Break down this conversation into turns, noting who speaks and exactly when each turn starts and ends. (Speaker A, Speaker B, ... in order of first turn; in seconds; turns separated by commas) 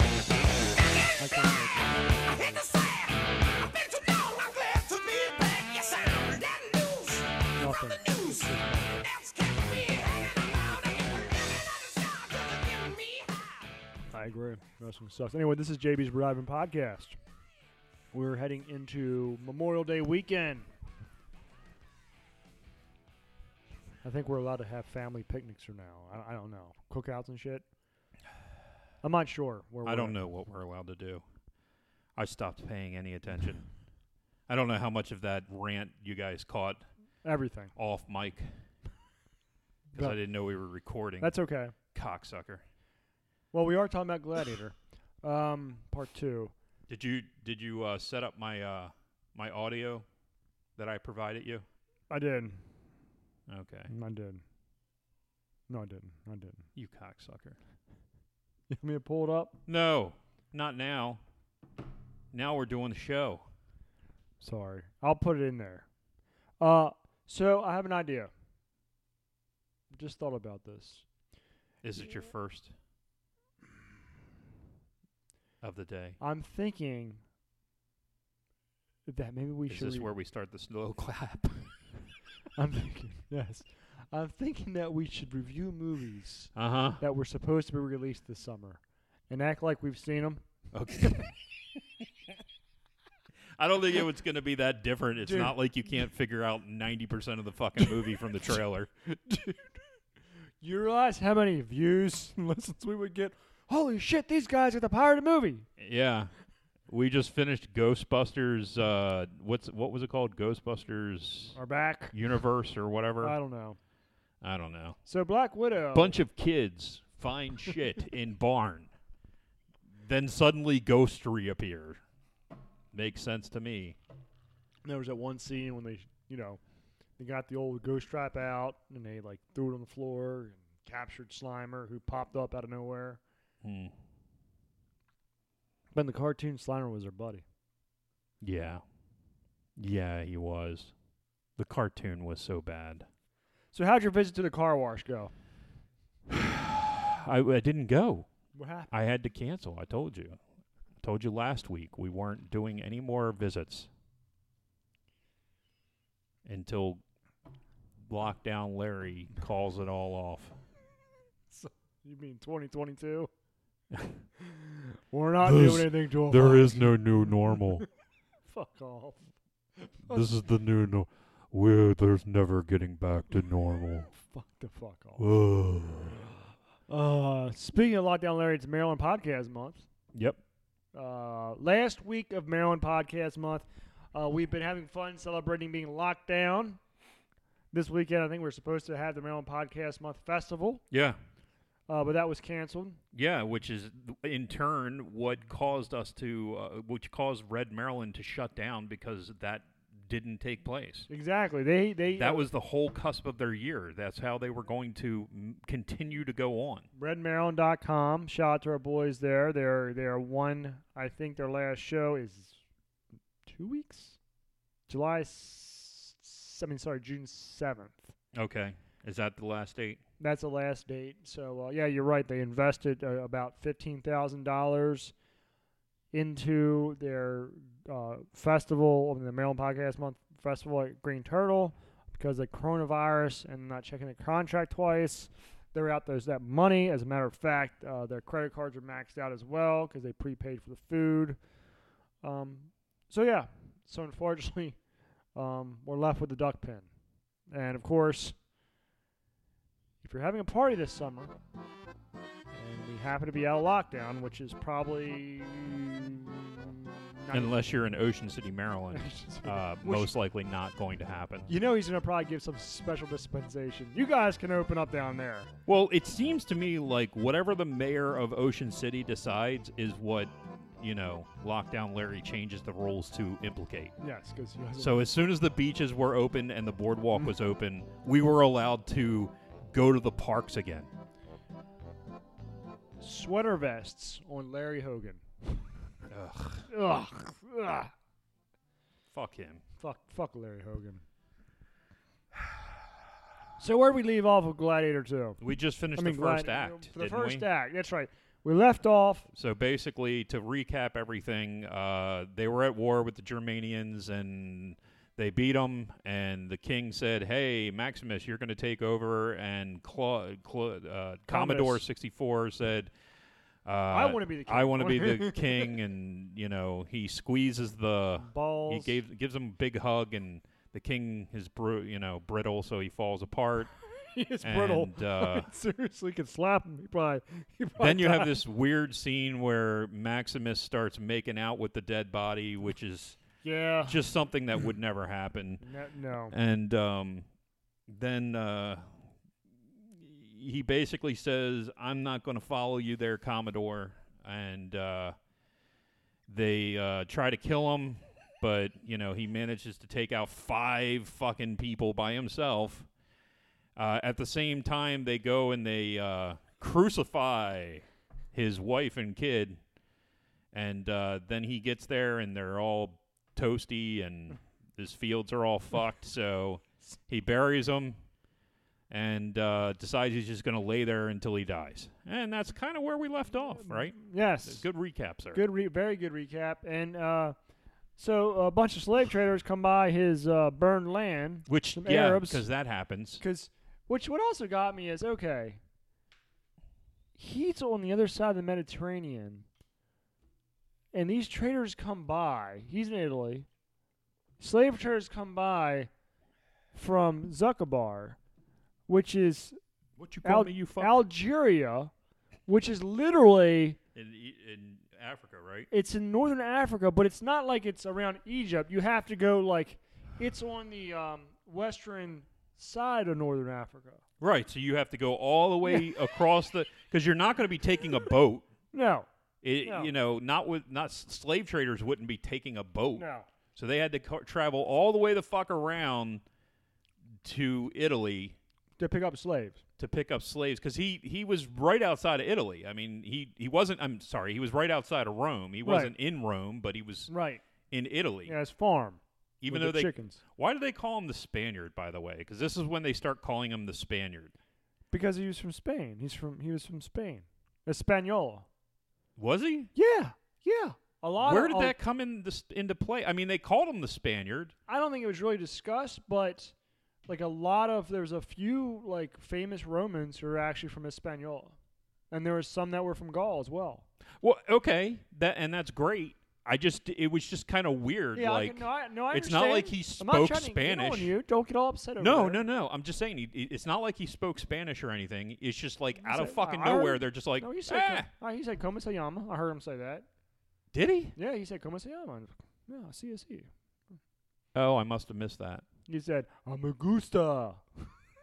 Speaker A: 1.2-2.9, Speaker A: 7.5-9.2, Speaker A: 14.1-17.2, Speaker A: 18.1-20.7, Speaker A: 24.0-27.6, Speaker A: 29.0-30.2, Speaker B: 29.8-31.2, Speaker B: 32.2-33.7, Speaker B: 34.5-36.8, Speaker A: 37.2-37.7, Speaker B: 37.8-38.5, Speaker B: 39.9-41.3, Speaker A: 41.2-41.8, Speaker B: 41.9-42.6, Speaker A: 43.5-46.5, Speaker B: 46.9-50.1, Speaker B: 50.8-51.6, Speaker A: 52.1-52.6, Speaker B: 53.5-53.9, Speaker A: 53.9-54.4, Speaker A: 55.7-56.7, Speaker B: 56.8-57.6, Speaker A: 58.7-59.6, Speaker B: 59.7-61.2, Speaker B: 62.3-63.5, Speaker A: 64.4-65.9, Speaker A: 66.6-68.3, Speaker A: 69.9-71.1, Speaker B: 71.8-72.7, Speaker B: 75.6-76.2, Speaker A: 76.2-77.2, Speaker A: 79.1-80.1, Speaker B: 79.7-81.9, Speaker A: 82.5-90.5, Speaker B: 86.5-87.0, Speaker B: 90.7-91.3, Speaker B: 93.6-98.9, Speaker A: 95.2-95.6, Speaker A: 99.1-99.8, Speaker A: 100.6-105.7, Speaker B: 105.8-106.3, Speaker B: 106.9-111.6, Speaker A: 111.5-112.2, Speaker B: 112.1-113.3, Speaker A: 113.2-113.8, Speaker B: 114.4-115.0, Speaker A: 115.0-116.2, Speaker B: 115.9-118.9, Speaker B: 120.0-122.0, Speaker B: 122.9-124.0, Speaker A: 124.8-126.6, Speaker A: 127.2-133.2, Speaker B: 133.6-133.9, Speaker A: 135.9-137.4, Speaker B: 138.4-138.8, Speaker B: 139.8-140.9, Speaker B: 141.6-143.1, Speaker A: 143.7-145.3, Speaker B: 146.3-148.3, Speaker A: 148.5-148.9, Speaker B: 148.9-150.4, Speaker B: 151.0-153.9, Speaker B: 156.4-157.0, Speaker B: 158.1-160.6, Speaker A: 161.5-163.3, Speaker B: 163.9-164.2, Speaker A: 164.4-167.0, Speaker B: 165.4-167.8, Speaker A: 168.4-170.3, Speaker B: 170.1-174.1, Speaker A: 174.1-175.3, Speaker B: 175.2-176.2, Speaker A: 176.9-179.8, Speaker B: 180.1-180.4, Speaker A: 180.9-186.8, Speaker A: 187.7-190.8, Speaker B: 190.9-191.2, Speaker A: 191.9-193.0, Speaker B: 193.1-201.1, Speaker A: 201.1-202.5, Speaker B: 202.2-206.8, Speaker A: 206.9-212.6, Speaker A: 213.5-214.2, Speaker A: 214.9-218.1, Speaker B: 218.3-220.0, Speaker A: 220.2-225.1, Speaker A: 226.1-241.4, Speaker A: 242.2-244.8, Speaker A: 245.3-246.9, Speaker A: 247.5-248.4, Speaker A: 250.0-251.3, Speaker A: 252.5-257.6, Speaker B: 257.3-261.5, Speaker A: 258.9-260.1, Speaker A: 261.5-265.5, Speaker B: 265.7-273.9, Speaker A: 274.0-275.1, Speaker B: 274.8-280.9, Speaker A: 283.0-285.2, Speaker B: 286.1-286.7, Speaker A: 286.7-287.9, Speaker B: 289.1-289.6, Speaker A: 289.8-291.0, Speaker A: 293.6-295.4, Speaker B: 295.4-297.4, Speaker A: 295.9-299.3, Speaker B: 299.3-312.9, Speaker A: 311.3-311.8, Speaker B: 313.6-323.7, Speaker A: 313.9-315.8, Speaker A: 318.2-319.0, Speaker A: 324.1-328.4, Speaker B: 324.4-325.5, Speaker B: 327.8-333.2, Speaker A: 333.4-334.0, Speaker B: 333.9-335.6, Speaker A: 335.6-336.4, Speaker B: 336.3-337.2, Speaker B: 337.9-339.0, Speaker B: 339.7-345.2, Speaker B: 346.3-352.9, Speaker B: 353.8-359.6, Speaker B: 360.5-368.0, Speaker B: 368.9-375.4, Speaker A: 373.6-374.6, Speaker A: 375.3-377.4, Speaker A: 378.0-382.4, Speaker B: 381.5-383.2, Speaker A: 383.2-385.6, Speaker A: 387.2-389.4, Speaker A: 390.9-393.5, Speaker A: 394.4-395.9, Speaker A: 396.7-398.2, Speaker A: 398.9-399.6, Speaker B: 400.0-400.9, Speaker A: 400.2-401.9, Speaker A: 402.5-403.8, Speaker B: 403.9-405.7, Speaker A: 405.7-414.0, Speaker B: 414.2-418.5, Speaker A: 415.6-416.2, Speaker A: 418.7-419.1, Speaker B: 419.4-426.2, Speaker A: 419.6-419.9, Speaker A: 422.9-423.3, Speaker B: 427.2-428.4, Speaker A: 428.8-429.6, Speaker B: 429.8-437.1, Speaker A: 435.6-435.9, Speaker A: 437.1-437.4, Speaker B: 437.7-438.3, Speaker A: 438.2-440.2, Speaker B: 439.4-444.3, Speaker A: 444.9-448.5, Speaker B: 449.2-449.7, Speaker A: 449.8-451.8, Speaker B: 451.2-454.5, Speaker A: 454.7-456.5, Speaker A: 457.1-461.6, Speaker A: 462.1-463.9, Speaker B: 464.2-471.1, Speaker A: 468.1-472.4, Speaker B: 472.0-478.1, Speaker A: 476.0-480.1, Speaker B: 480.7-481.1, Speaker A: 481.2-483.5, Speaker B: 484.5-485.7, Speaker A: 485.9-487.9